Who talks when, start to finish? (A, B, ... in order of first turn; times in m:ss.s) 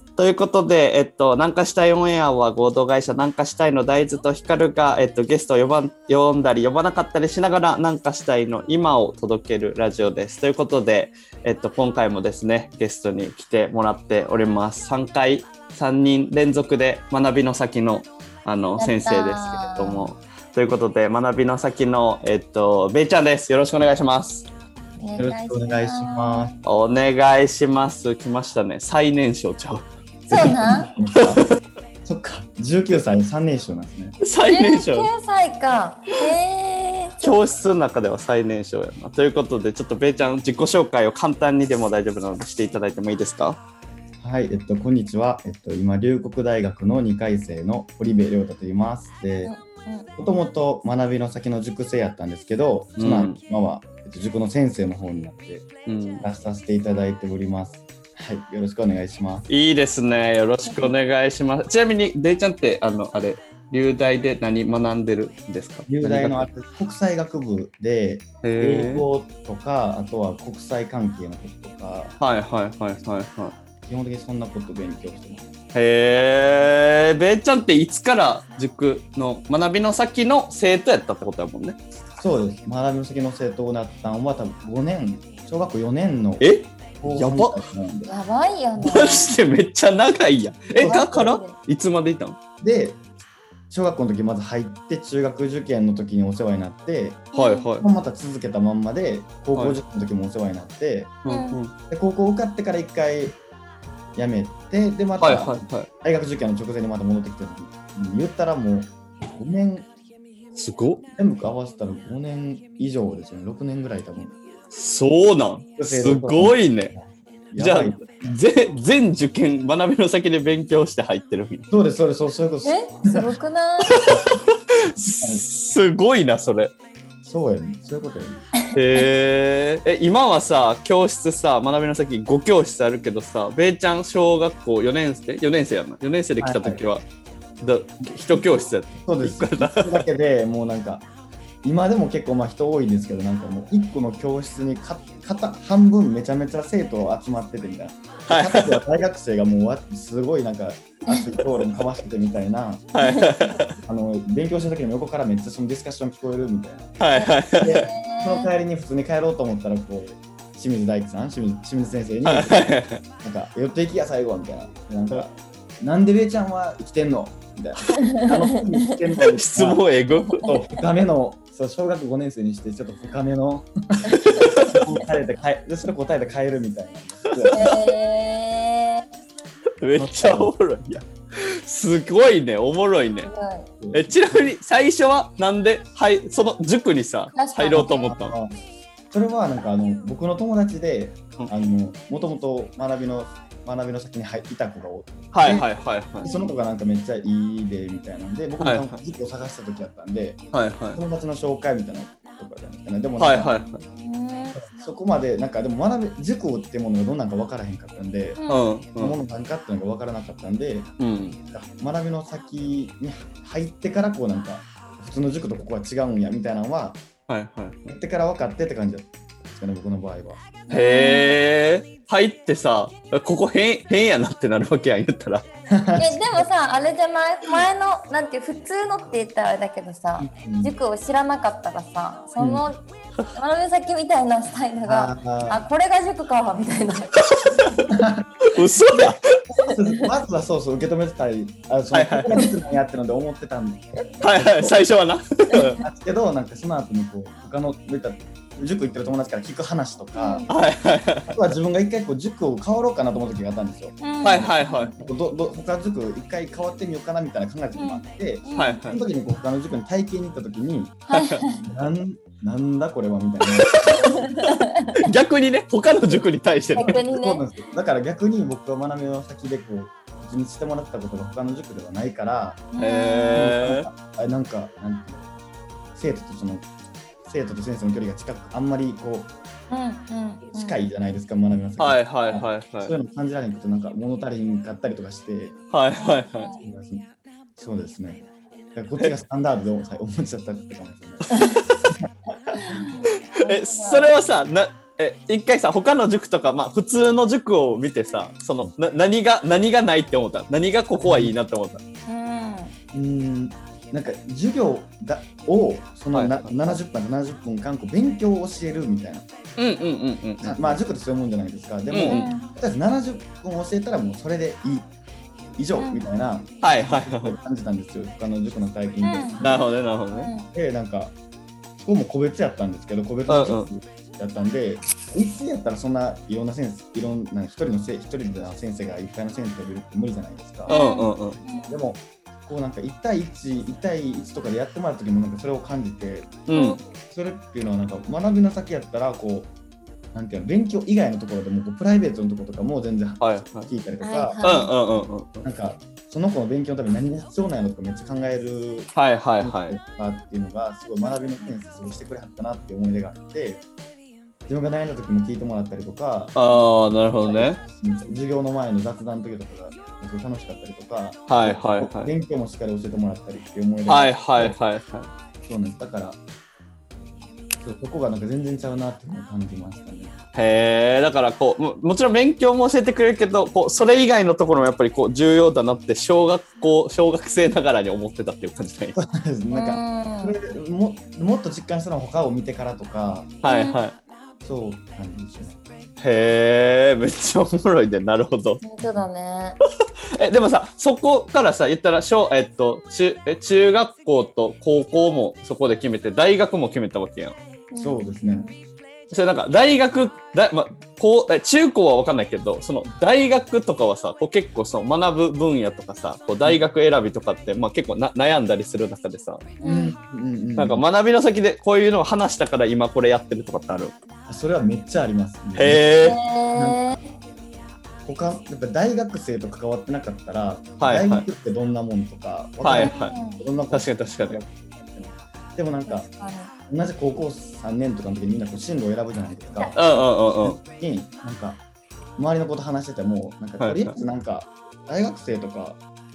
0:00.2-0:24.5 A
0:18.8-0:20.1 B
0:25.0-0:26.5 B
0:25.2-0:26.5 C
0:26.6-0:30.8 A
0:30.3-0:30.9 B
0:30.7-0:31.4 C
0:32.0-0:34.2 C
0:34.2-0:35.1 A
0:34.4-0:37.4 B
0:37.2-0:43.6 A
0:44.2-0:49.5 C
0:49.4-0:50.1 B
0:50.2-0:55.7 C
0:53.0-0:53.4 A
0:55.8-0:56.2 A
0:56.2-0:59.5 C
0:59.5-1:06.5 A
1:05.9-1:12.2 C
1:08.4-1:09.0 A
1:12.2-1:13.5 A
1:13.8-1:15.4 C
1:15.7-1:21.8 A
1:22.2-1:28.1 C
1:26.4-1:27.6 A
1:28.1-1:29.4 B
1:28.8-1:32.4 A
1:30.8-1:31.1 C
1:30.8-1:31.6 B
1:32.6-1:33.0 C
1:33.7-1:37.3 C
1:37.3-1:37.7 B
1:37.3-1:37.9 A
1:37.8-1:41.1 C
1:41.2-1:41.7 A
1:41.3-1:41.6 B
1:41.9-1:43.4 C
1:44.2-1:49.9 C
1:45.2-1:45.9 A
1:50.5-1:51.1 A
1:51.2-1:54.4 C
1:54.7-1:56.9 A
1:55.8-1:58.3 C
1:57.6-2:01.7 A
2:01.7-2:03.3 C
2:02.6-2:04.1 B
2:03.9-2:04.3 A
2:04.1-2:04.4 C
2:04.9-2:06.7 A
2:05.2-2:05.4 C
2:07.2-2:08.5 C
2:08.7-2:17.0 A
2:16.4-2:16.8 C
2:17.6-2:20.0 A
2:18.3-2:21.1 C
2:21.6-2:32.9 C
2:28.2-2:28.8 A
2:32.9-2:33.8 A
2:33.0-2:33.3 B
2:33.8-2:37.0 C
2:37.0-2:37.9 A
2:37.2-2:38.5 B
2:37.6-2:49.8 C
2:42.2-2:43.0 A
2:49.3-2:50.5 A
2:50.4-2:57.7 C
2:54.1-2:54.5 B
2:54.2-2:54.8 A
2:57.4-2:57.8 A
2:57.5-2:59.0 B
2:59.8-3:03.3 A
3:00.0-3:00.9 C
3:03.2-3:03.7 B
3:03.8-3:04.1 C
3:03.9-3:08.4 A
3:07.3-3:08.1 B
3:07.7-3:08.6 C
3:09.1-3:15.7 C
3:15.3-3:16.3 A
3:16.2-3:20.4 C
3:16.2-3:16.5 B
3:18.6-3:19.0 A
3:20.5-3:21.0 A
3:20.9-3:23.6 C
3:23.2-3:23.8 A
3:23.9-3:24.6 B
3:24.6-3:28.4 C
3:28.4-3:28.7 B
3:28.5-3:29.2 A
3:29.0-3:30.9 C
3:31.0-3:31.4 A
3:31.5-3:37.0 C
3:37.3-3:37.9 A
3:37.9-3:40.5 C
3:40.7-3:45.4 A
3:40.7-3:41.4 B
3:45.7-3:46.5 C
3:46.0-3:52.8 B
3:50.2-3:50.8 C
3:52.4-3:52.7 C
3:53.3-3:57.3 B
3:54.8-3:55.6 C
3:57.4-3:57.7 A
3:57.9-3:58.3 C
3:58.5-3:59.3 A
3:59.0-4:04.8 C
3:59.7-4:00.1 B
4:01.9-4:02.5 A
4:04.2-4:05.8 A
4:05.8-4:10.5 C
4:10.2-4:10.5 B
4:10.5-4:11.3 A
4:11.3-4:24.2 C
4:14.0-4:14.5 B
4:14.2-4:15.0 A
4:17.8-4:18.9 B
4:18.5-4:19.0 A
4:21.1-4:21.6 B
4:21.1-4:21.4 A
4:24.2-4:25.1 B
4:25.0-4:27.0 A
4:26.8-4:27.4 B
4:26.8-4:32.7 C
4:32.7-4:33.5 B
4:32.8-4:33.9 A
4:33.3-4:35.2 C
4:35.9-4:36.7 C
4:37.2-4:39.3 C
4:39.7-4:40.8 B
4:40.4-4:45.6 C
4:41.8-4:42.9 A
4:45.7-4:46.5 A
4:46.0-4:46.6 B
4:46.6-4:52.6 C
4:51.3-4:51.6 B
4:51.3-4:51.8 A
4:52.6-4:54.1 B
4:53.4-5:01.8 A
5:01.0-5:01.3 C
5:02.1-5:02.7 B
5:02.9-5:09.3 C
5:06.1-5:06.4 A
5:09.6-5:10.8 A
5:10.4-5:14.9 C
5:11.9-5:12.3 A
5:12.1-5:12.5 B
5:15.6-5:19.6 C
5:15.8-5:16.0 B
5:16.6-5:17.4 A
5:19.0-5:19.4 B
5:19.4-5:20.3 A
5:20.1-5:20.5 B
5:20.5-5:21.1 C
5:21.8-5:30.8 C
5:23.3-5:23.7 A
5:30.7-5:31.4 A
5:30.7-5:31.7 B
5:31.7-5:36.4 C
5:36.5-5:36.8 A
5:36.5-5:36.8 B
5:37.1-5:39.5 C
5:40.1-5:53.6 C
5:43.2-5:43.7 A
5:44.0-5:44.7 B
5:44.4-5:45.4 A
5:48.9-5:49.8 A
5:54.5-6:04.6 C
5:56.3-5:57.6 A
6:01.3-6:02.1 A
6:03.9-6:05.1 A
6:05.4-6:06.2 C
6:07.6-6:10.1 C
6:10.3-6:19.0 A
6:18.9-6:23.3 C
6:19.5-6:20.4 B
6:23.4-6:24.0 A
6:23.4-6:23.8 B
6:24.4-6:25.6 C
6:26.0-6:28.6 A
6:28.6-6:29.6 B
6:28.8-6:29.0 C
6:30.1-6:37.4 A
6:37.7-6:38.5 B
6:37.8-6:38.5 C
6:39.1-6:49.5 A
6:49.6-6:50.0 B
6:49.6-6:50.8 C
6:50.6-6:53.9 A
6:54.3-6:55.9 C
6:55.5-6:56.2 A
6:56.0-6:57.0 B
6:56.5-6:57.0 C
6:58.0-7:06.1 C
7:00.8-7:01.3 A
7:02.6-7:03.2 A
7:02.8-7:03.4 B
7:03.7-7:04.4 A
7:05.8-7:06.5 B
7:06.7-7:11.6 C
7:09.8-7:10.6 A
7:12.2-7:15.8 C
7:13.6-7:13.9 A